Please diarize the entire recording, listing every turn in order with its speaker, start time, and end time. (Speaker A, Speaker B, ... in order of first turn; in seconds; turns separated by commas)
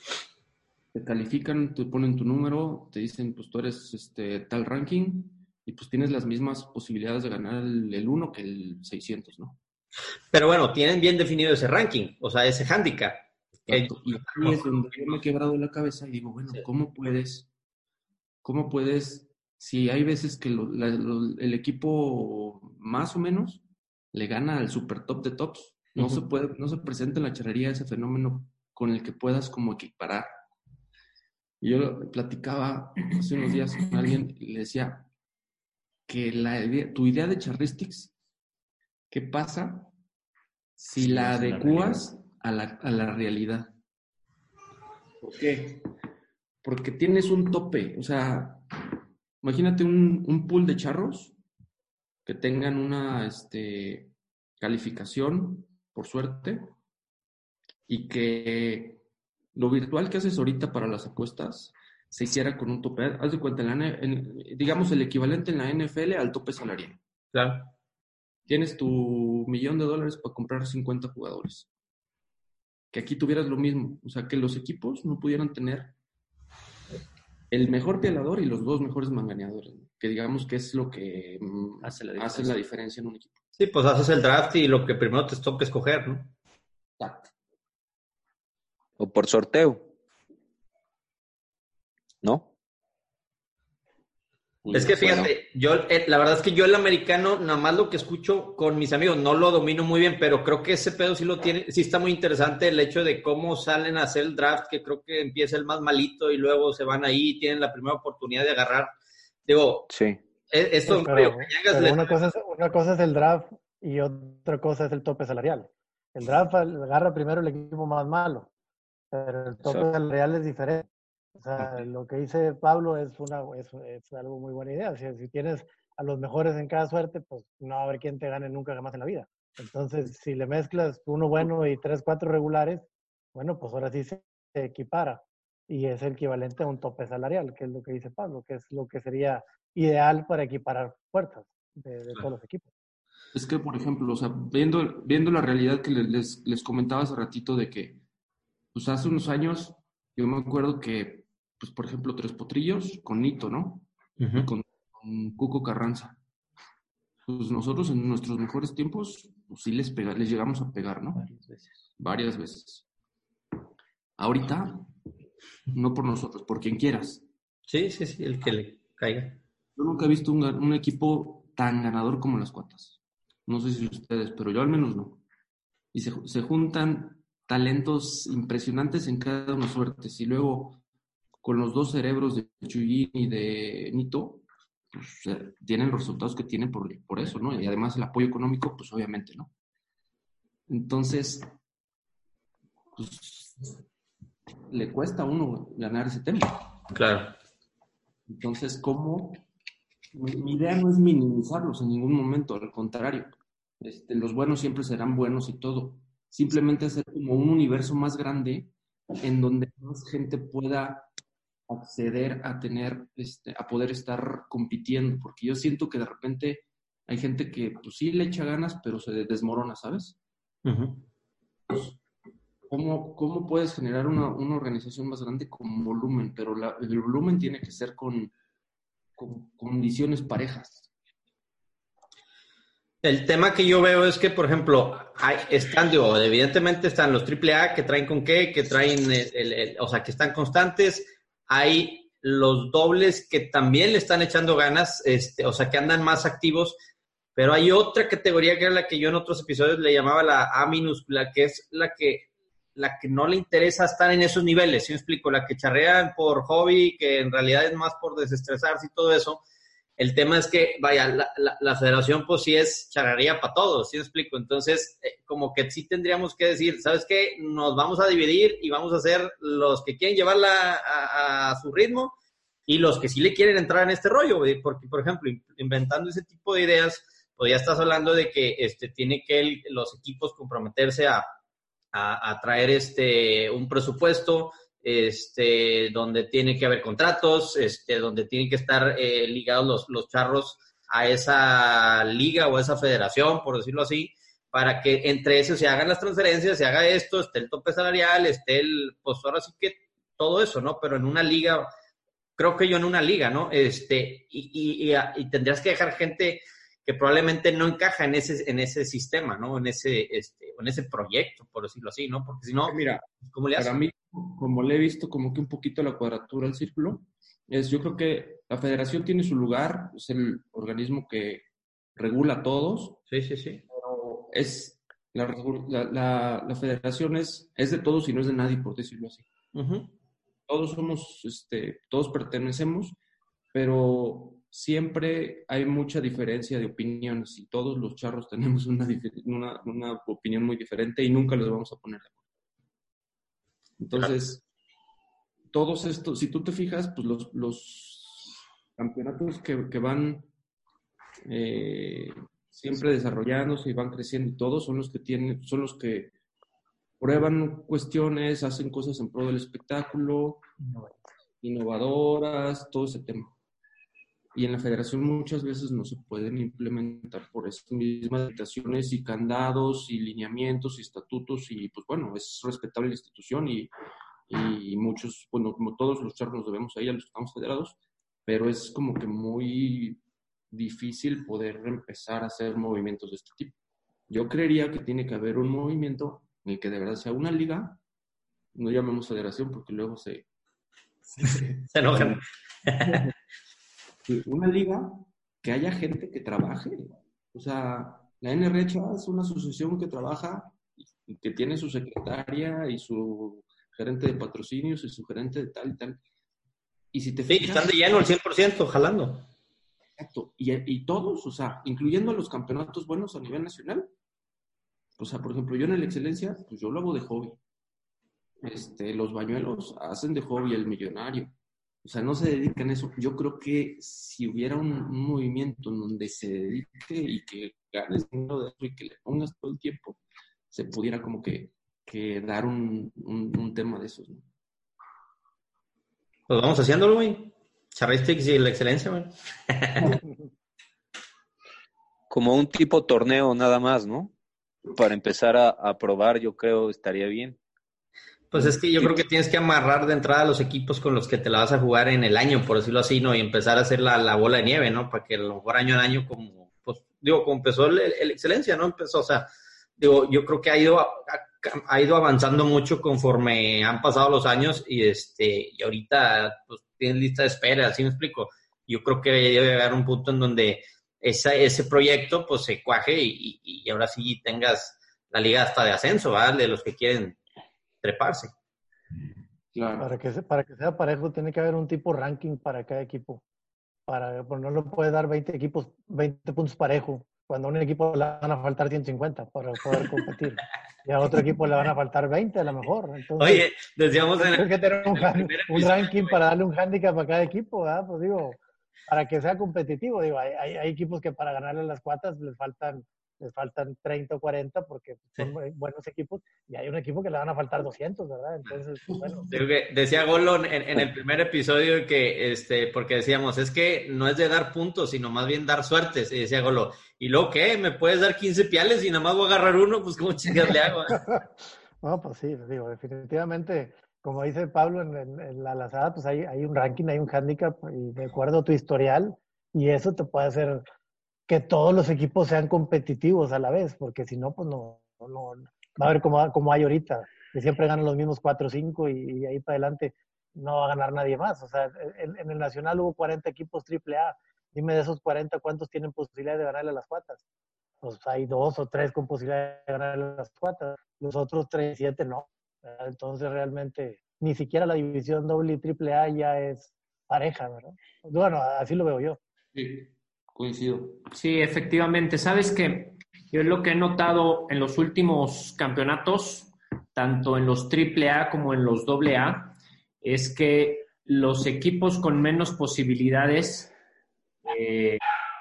Speaker A: 0.9-9.6, Speaker B: 10.3-15.2, Speaker A: 13.7-17.5, Speaker A: 18.4-30.3, Speaker A: 31.6-35.1, Speaker A: 36.1-38.1, Speaker A: 39.1-39.9, Speaker A: 40.8-43.8, Speaker C: 41.0-42.0, Speaker A: 45.2-45.9, Speaker A: 46.6-48.6, Speaker A: 49.4-51.4, Speaker A: 52.3-56.7, Speaker A: 57.9-59.0, Speaker A: 59.5-67.0, Speaker B: 67.3-67.7, Speaker A: 68.5-71.7, Speaker A: 72.9-76.0, Speaker A: 77.5-83.4, Speaker C: 81.8-82.6, Speaker B: 83.6-86.3, Speaker A: 87.0-87.3, Speaker D: 89.0-89.9, Speaker D: 92.2-92.5, Speaker A: 94.6-95.3, Speaker B: 94.7-108.9, Speaker B: 109.5-109.9, Speaker D: 109.9-110.2, Speaker B: 110.5-112.2, Speaker E: 110.9-118.5, Speaker E: 119.1-142.7, Speaker A: 143.3-148.0, Speaker A: 148.7-156.2, Speaker B: 154.2-154.5, Speaker A: 157.3-161.3, Speaker C: 161.2-161.8, Speaker A: 162.0-162.8, Speaker A: 164.2-164.9, Speaker A: 165.7-167.2, Speaker B: 167.7-169.4, Speaker A: 169.8-175.2, Speaker A: 175.9-180.8, Speaker A: 181.4-189.5, Speaker A: 190.7-191.5, Speaker A: 192.9-193.7, Speaker A: 194.7-196.6, Speaker B: 196.9-197.4, Speaker A: 198.3-199.4, Speaker A: 200.1-211.1, Speaker A: 211.7-220.2, Speaker B: 220.7-221.1, Speaker A: 221.7-222.0, Speaker A: 222.7-228.3, Speaker A: 229.2-230.9, Speaker B: 233.0-246.8, Speaker B: 247.4-259.4, Speaker B: 260.0-272.1, Speaker B: 272.7-281.3, Speaker B: 281.9-301.7, Speaker B: 302.4-312.8, Speaker A: 312.6-323.0, Speaker B: 313.3-313.8, Speaker B: 323.1-323.6, Speaker A: 323.7-329.3, Speaker B: 329.6-329.9, Speaker A: 330.5-333.0, Speaker A: 333.5-342.2, Speaker A: 343.8-344.4, Speaker A: 345.5-350.3, Speaker A: 351.2-356.1, Speaker A: 357.0-360.4, Speaker A: 361.4-363.3, Speaker A: 364.4-373.7, Speaker A: 374.3-383.6, Speaker A: 384.1-387.8, Speaker A: 388.5-390.2, Speaker A: 391.1-392.2, Speaker B: 391.7-393.1, Speaker A: 392.8-393.1, Speaker A: 394.1-406.0, Speaker A: 406.9-407.7, Speaker B: 407.3-409.3, Speaker A: 410.0-413.9, Speaker A: 415.0-417.4, Speaker A: 418.4-430.0, Speaker A: 430.5-434.3, Speaker B: 436.3-440.0, Speaker D: 442.1-444.1, Speaker D: 444.7-447.4, Speaker B: 448.3-477.2, Speaker B: 477.8-478.3, Speaker A: 479.5-479.9, Speaker E: 479.8-483.2, Speaker E: 483.9-493.5, Speaker B: 493.2-496.2, Speaker E: 494.2-509.3, Speaker B: 509.3-521.0, Speaker E: 521.8-530.6, Speaker E: 531.3-547.2, Speaker E: 547.8-559.2, Speaker A: 559.5-561.0, Speaker C: 561.1-573.7, Speaker C: 574.5-575.0